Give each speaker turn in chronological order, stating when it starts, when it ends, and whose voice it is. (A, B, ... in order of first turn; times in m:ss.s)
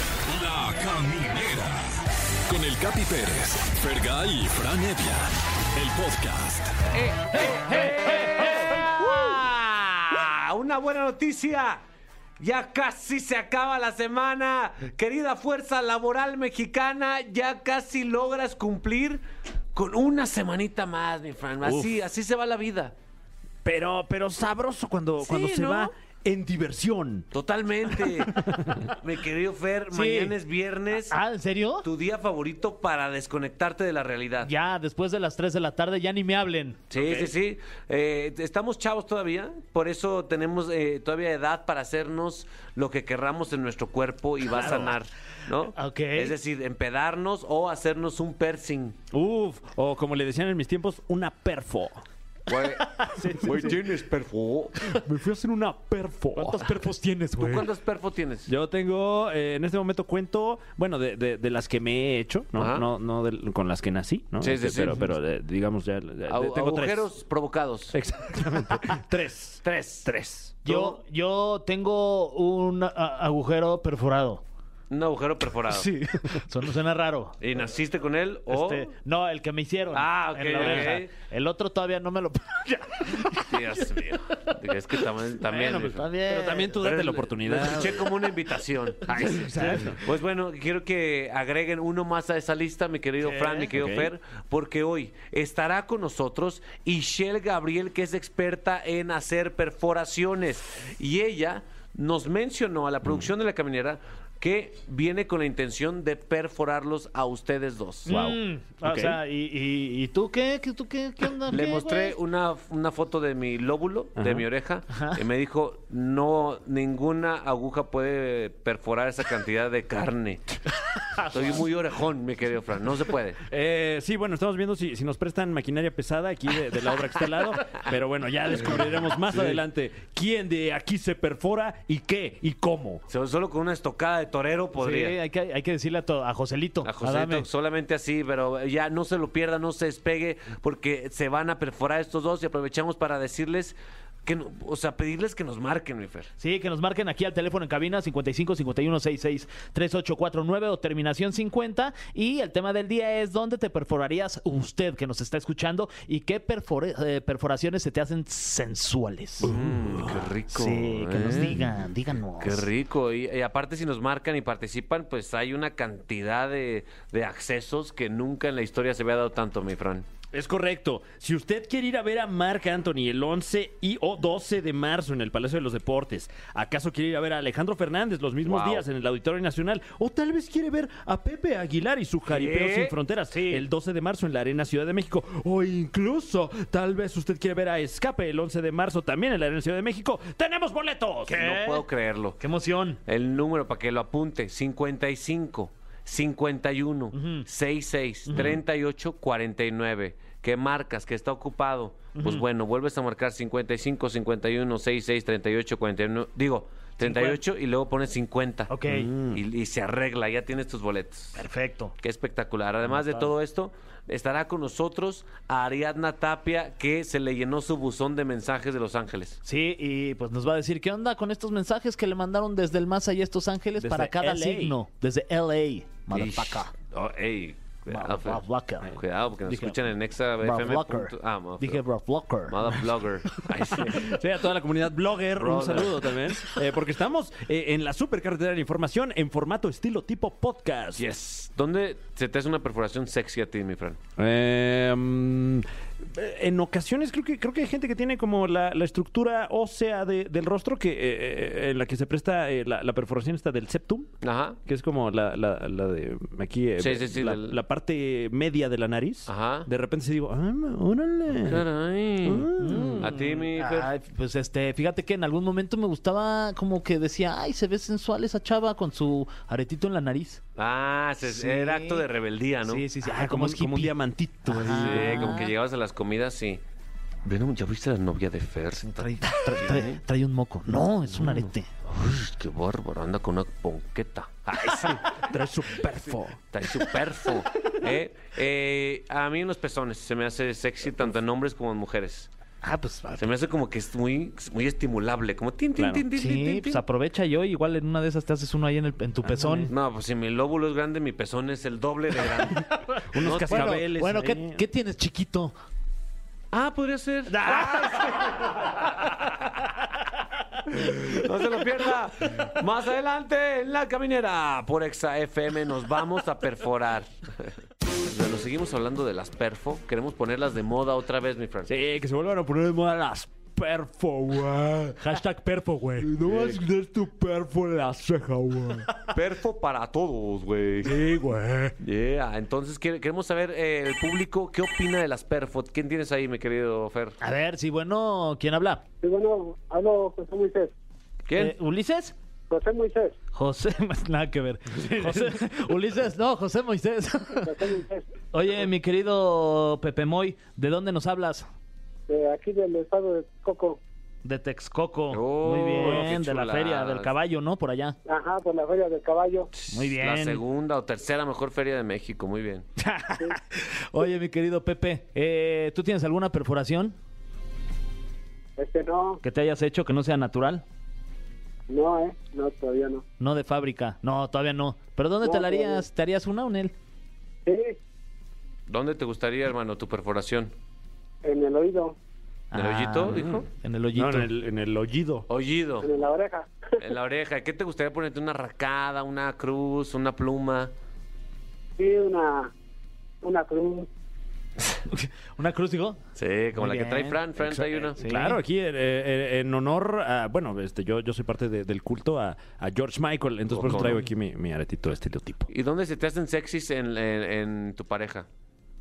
0:00.3-0:01.9 A
0:02.5-0:06.8 A
0:06.9-0:11.8 B
0:12.4-0:19.2 B
0:19.7-0:22.9 B
0:21.6-0:22.0 C
0:23.6-0:27.3 C
0:25.2-0:25.9 B
0:27.3-0:31.2 B
0:29.9-0:30.4 D
0:31.1-0:31.9 D
0:31.8-0:34.5 B
0:34.4-0:36.8 D
0:36.9-0:49.0 B
0:36.9-0:37.3 C
0:44.5-0:44.9 C
0:45.8-0:46.4 D
0:49.1-0:52.0 C
0:52.5-0:54.8 B
0:53.0-0:53.5 D
0:53.2-0:53.9 C
0:54.9-0:56.9 C
0:56.4-0:57.7 D
0:57.4-0:58.5 B
0:58.5-1:07.1 C
1:02.6-1:02.9 B
1:04.4-1:05.0 B
1:06.3-1:08.0 B
1:07.9-1:10.6 C
1:09.6-1:10.1 B
1:10.6-1:14.4 D
1:10.7-1:11.0 B
1:14.9-1:15.9 B
1:15.7-1:17.3 D
1:17.4-1:18.9 B
1:18.5-1:23.6 D
1:19.9-1:21.1 B
1:20.6-1:21.0 C
1:23.3-1:26.1 B
1:25.5-1:28.1 C
1:25.5-1:26.8 D
1:26.8-1:48.1 B
1:29.1-1:30.0 C
1:33.3-1:33.7 D
1:33.7-1:34.1 C
1:48.1-1:52.2 D
1:48.1-1:49.2 C
1:51.5-2:00.6 B
1:54.2-1:54.5 C
1:54.9-1:55.2 D
2:01.2-2:01.6 D
2:01.3-2:03.4 B
2:03.5-2:13.0 C
2:13.1-2:15.2 B
2:14.8-2:17.5 D
2:16.8-2:26.3 B
2:26.4-2:39.5 D
2:39.4-2:40.3 C
2:39.4-2:41.6 B
2:40.5-2:42.7 D
2:42.4-2:50.1 B
2:50.3-3:11.5 C
2:58.4-2:58.8 B
3:02.3-3:03.0 B
3:03.4-3:03.6 D
3:11.3-3:11.8 D
3:11.4-3:12.4 B
3:12.4-3:13.0 D
3:13.1-3:31.4 B
3:17.1-3:17.5 D
3:18.3-3:18.6 C
3:22.2-3:22.4 D
3:27.0-3:27.4 D
3:28.7-3:29.3 D
3:31.4-3:31.9 D
3:32.0-3:39.4 B
3:39.4-3:46.7 D
3:43.8-3:44.8 C
3:46.1-3:51.8 B
3:47.9-3:48.9 D
3:49.5-3:49.8 D
3:50.4-3:52.8 D
3:52.5-3:54.1 B
3:54.0-4:01.1 C
3:55.4-3:56.0 B
4:01.0-4:04.0 B
4:04.2-4:14.1 C
4:14.2-4:14.6 B
4:14.7-4:21.7 C
4:16.8-4:17.6 B
4:19.3-4:19.7 B
4:21.4-4:22.5 B
4:22.2-4:23.1 C
4:22.6-4:30.4 D
4:23.0-4:23.9 B
4:30.6-4:32.9 B
4:31.2-4:32.0 D
4:32.6-4:35.5 D
4:33.0-4:35.3 C
4:34.7-4:36.6 B
4:37.2-4:40.0 B
4:38.8-4:41.7 D
4:41.1-4:45.0 B
4:44.7-4:46.4 C
4:46.5-4:52.3 B
4:52.6-4:53.3 D
4:53.2-4:56.8 B
4:55.8-4:56.1 C
4:56.2-4:59.7 D
4:59.2-4:59.7 C
4:59.7-5:03.9 B
5:03.1-5:04.7 C
5:03.5-5:05.6 D
5:06.5-5:09.2 B
5:07.3-5:08.7 D
5:10.7-5:17.5 B
5:18.0-5:21.7 B
5:21.7-5:25.2 C
5:25.0-5:26.1 D
5:26.0-5:28.9 C
5:26.2-5:26.6 B
5:29.1-5:31.0 B
5:30.8-5:31.7 D
5:31.8-5:37.2 B
5:37.2-5:38.8 D
5:39.0-5:40.7 E
5:41.3-5:41.6 B
5:41.4-5:42.1 D
5:42.5-5:43.2 E
5:43.3-5:47.5 D
5:47.4-5:48.1 E
5:48.3-5:51.5 D
5:52.1-5:53.8 E
5:54.2-5:58.0 D
5:55.1-5:57.1 B
5:58.1-5:59.5 E
5:59.5-6:02.7 B
5:59.7-6:00.4 D
6:02.8-6:07.0 D
6:08.6-6:09.2 E
6:09.2-6:10.6 D
6:11.7-6:13.0 E
6:13.2-6:16.7 D
6:15.2-6:15.8 E
6:17.5-6:17.8 E
6:18.7-6:20.5 B
6:21.2-6:22.0 E
6:22.5-6:24.3 D
6:22.5-6:23.4 B
6:23.1-6:25.3 C
6:25.3-6:25.9 B
6:25.8-6:26.8 E
6:26.8-6:30.7 B
6:31.8-6:32.5 E
6:33.2-6:33.9 E
6:34.9-6:36.0 D
6:36.2-6:38.0 B
6:36.6-6:37.2 D
6:37.4-6:45.5 C
6:38.0-6:38.4 D
6:43.5-6:44.0 B
6:45.5-6:48.3 B